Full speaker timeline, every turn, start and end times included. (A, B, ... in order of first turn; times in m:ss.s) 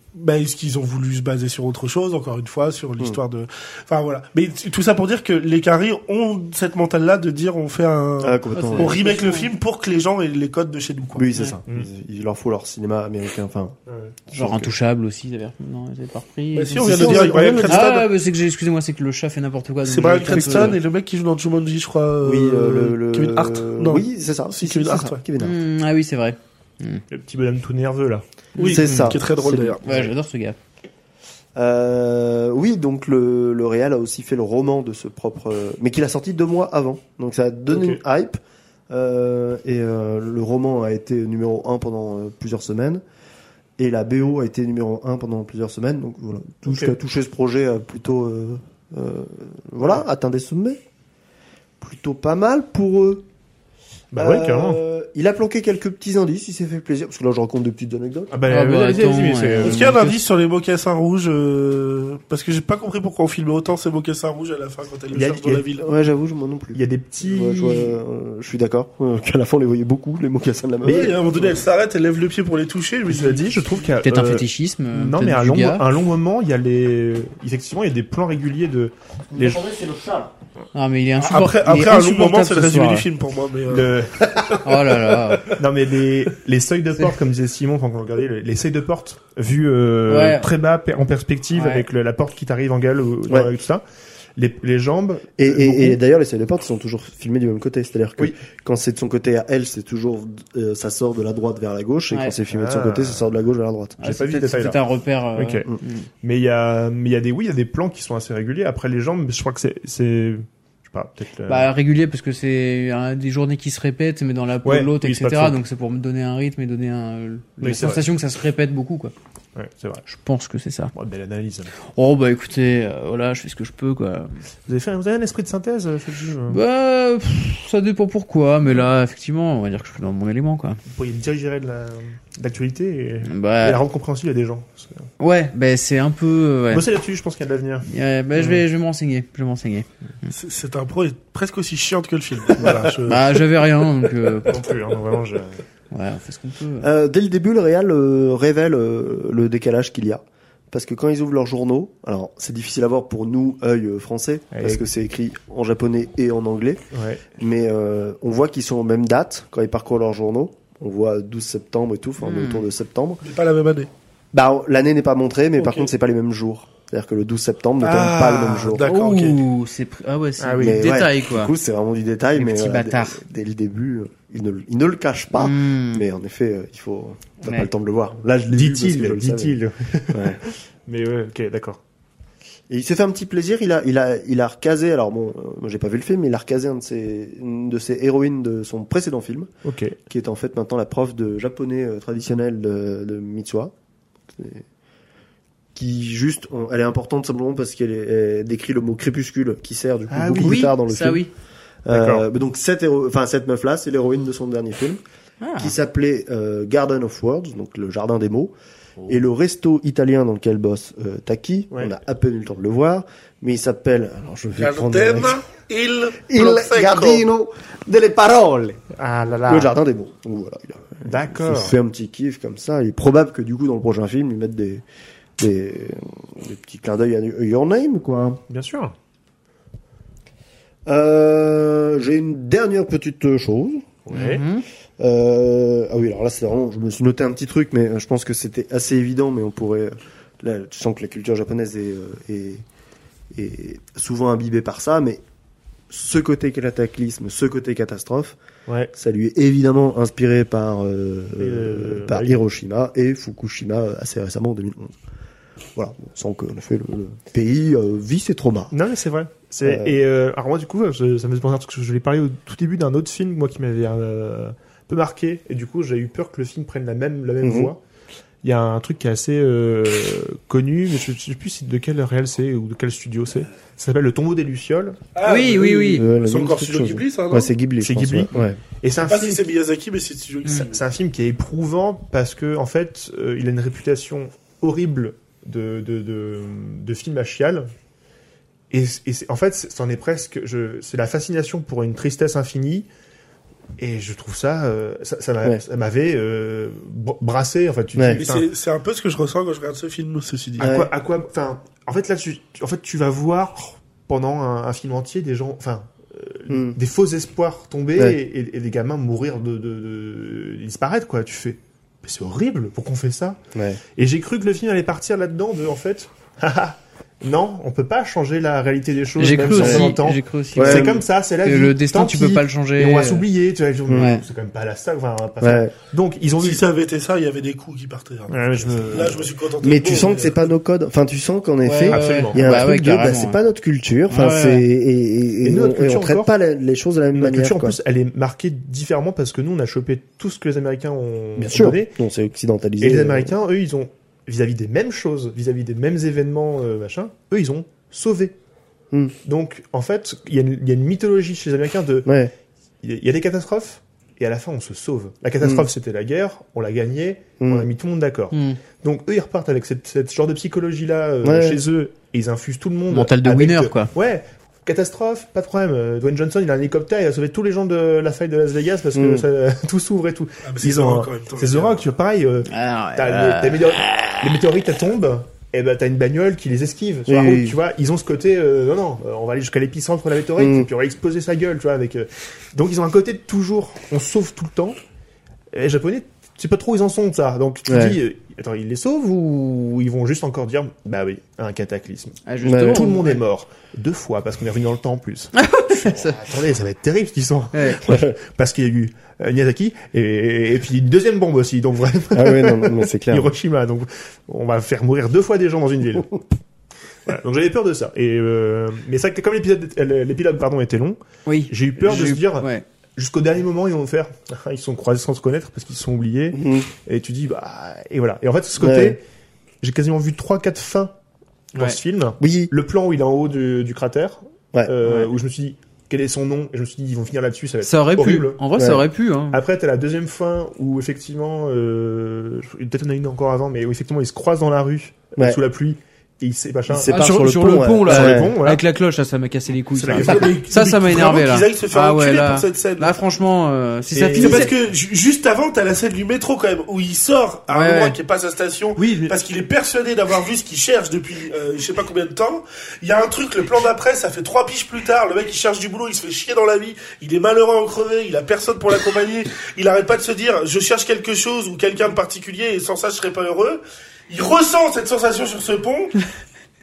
0:00.1-0:11.3 A
0:08.2-0:09.1 B
0:08.5-0:09.5 C
0:11.2-0:13.8 B
0:13.9-0:14.2 D
0:14.3-0:20.8 C
0:14.3-0:14.7 B
0:16.5-0:18.1 A
0:16.8-0:17.8 B
0:19.8-0:24.0 A
0:20.2-0:20.8 B
0:22.2-0:25.6 B
0:24.6-0:25.2 A
0:25.4-0:27.0 C
0:27.1-0:28.2 D
0:28.5-0:28.8 C
0:28.6-0:29.8 A
0:28.7-0:29.8 B
0:28.8-0:29.1 D
0:29.8-0:30.6 C
0:31.5-0:43.0 B
0:37.7-0:38.0 D
0:43.8-0:50.8 B
0:46.7-0:46.9 D
0:51.8-0:53.2 B
0:54.1-0:54.8 D
0:54.1-0:58.4 B
0:58.3-0:59.8 D
0:58.5-1:00.2 C
0:59.6-1:05.9 A
1:05.1-1:05.6 D
1:05.8-1:11.2 B
1:06.7-1:08.0 D
1:10.8-1:11.2 D
1:10.8-1:13.8 A
1:13.1-1:19.6 D
1:14.0-1:15.8 C
1:19.3-1:20.3 B
1:20.7-1:23.0 C
1:21.2-1:24.0 A
1:23.7-1:24.8 D
1:24.6-1:25.5 C
1:25.5-1:33.8 D
1:30.1-1:30.5 C
1:31.5-1:31.8 C
1:34.4-1:36.0 D
1:35.4-1:44.0 B
1:42.5-1:43.3 D
1:44.0-1:46.1 C
1:44.0-1:44.8 D
1:45.4-1:45.7 D
1:46.2-1:51.7 D
1:51.5-1:59.1 C
1:54.6-1:55.6 D
1:57.6-1:58.0 D
1:59.6-2:00.0 D
2:00.0-2:00.9 C
2:00.9-2:01.7 D
2:01.9-2:04.3 C
2:04.6-2:06.6 D
2:06.5-2:10.8 C
2:10.8-2:15.1 D
2:13.2-2:13.8 C
2:15.2-2:16.8 C
2:16.7-2:18.6 D
2:17.8-2:20.3 C
2:20.3-2:23.5 A
2:22.6-2:22.9 D
2:23.0-2:24.6 C
2:24.4-2:25.6 D
2:25.9-2:26.9 C
2:26.8-2:36.8 B
2:34.5-2:34.8 D
2:36.9-2:37.2 D
2:37.3-2:43.2 B
2:42.2-2:42.7 C
2:43.2-2:43.9 A
2:44.3-2:48.8 B
2:45.6-2:45.9 A
2:47.8-2:49.4 A
2:48.8-2:51.5 C
2:50.4-2:50.9 D
2:50.6-2:59.6 B
2:52.4-2:53.2 C
2:55.4-2:56.0 C
2:57.4-2:57.7 C
2:58.5-3:01.8 D
3:00.1-3:00.4 B
3:02.7-3:09.5 B
3:09.6-3:10.0 D
3:10.1-3:13.7 B
3:14.4-3:14.6 B
3:15.7-3:21.2 B
3:20.1-3:20.6 D
3:20.4-3:21.3 C
3:21.8-3:25.0 B
3:21.9-3:22.2 D
3:25.4-3:25.7 C
3:25.6-3:28.5 B
3:29.0-3:35.4 B
3:34.6-3:37.3 A
3:36.3-3:38.8 B
3:38.9-3:39.7 D
3:39.4-3:44.8 B
3:41.0-3:41.8 D
3:45.4-3:48.4 B
3:48.5-3:48.9 D
3:50.8-3:53.9 B
3:54.0-3:54.4 D
3:54.1-3:54.6 C
3:55.0-4:02.6 B
4:03.3-4:05.2 B
4:05.9-4:08.4 B
4:08.9-4:14.9 B
4:11.4-4:12.4 D
4:15.8-4:18.7 B
4:18.7-4:27.8 D
4:19.6-4:19.9 B
4:27.4-4:27.7 B
4:28.4-4:35.0 D
4:35.1-4:37.5 A
4:35.2-4:36.0 C
4:35.5-4:38.6 B
4:37.8-4:39.4 D
4:39.0-4:40.8 A
4:40.5-4:47.7 D
4:48.7-4:52.9 D
4:53.8-4:58.5 D
4:58.0-4:58.2 B
4:58.1-5:00.7 A
5:00.6-5:13.4 D
5:00.6-5:00.9 B
5:06.5-5:06.8 B
5:13.5-5:13.8 B
5:14.0-5:26.6 D
5:19.2-5:23.2 C
5:19.4-5:19.9 B
5:20.6-5:21.0 B
5:23.9-5:24.2 C
5:25.4-5:25.7 B
5:26.4-5:30.5 A
5:28.3-5:29.3 D
5:29.6-5:37.8 B
5:31.6-5:33.4 C
5:31.9-5:32.7 D
5:34.1-5:34.6 C
5:35.4-5:36.3 D
5:37.1-5:41.9 D
5:41.4-5:43.4 B
5:42.8-5:48.3 D
5:49.2-5:52.1 D
5:52.0-5:52.3 B
5:52.8-6:24.8 D
5:55.4-5:55.7 B
5:57.4-5:57.7 B
5:58.3-5:58.6 C
6:01.2-6:01.6 B
6:02.9-6:03.9 C
6:08.9-6:09.2 B
6:10.4-6:11.8 A
6:12.4-6:14.4 C
6:17.1-6:17.6 B
6:20.4-6:20.7 B
6:25.5-6:46.2 D
6:27.7-6:28.0 B
6:32.2-6:33.2 C
6:32.4-6:33.0 B
6:35.3-6:36.2 C
6:37.5-6:37.8 C
6:37.8-6:38.1 B
6:42.1-6:43.3 B
6:47.0-6:59.0 D
6:51.2-6:52.6 C
6:56.3-6:56.7 B
6:58.6-6:59.0 B
6:59.6-7:01.0 D
7:01.5-7:08.4 D
7:02.2-7:02.5 B
7:07.6-7:09.4 C
7:08.6-7:08.8 B
7:09.3-7:17.0 D
7:16.7-7:18.4 B
7:16.9-7:24.5 C
7:17.8-7:18.6 D
7:19.7-7:20.4 D
7:19.9-7:23.0 A
7:23.9-7:24.5 D
7:24.1-7:46.0 A
7:27.5-7:28.0 C
7:28.8-7:29.1 D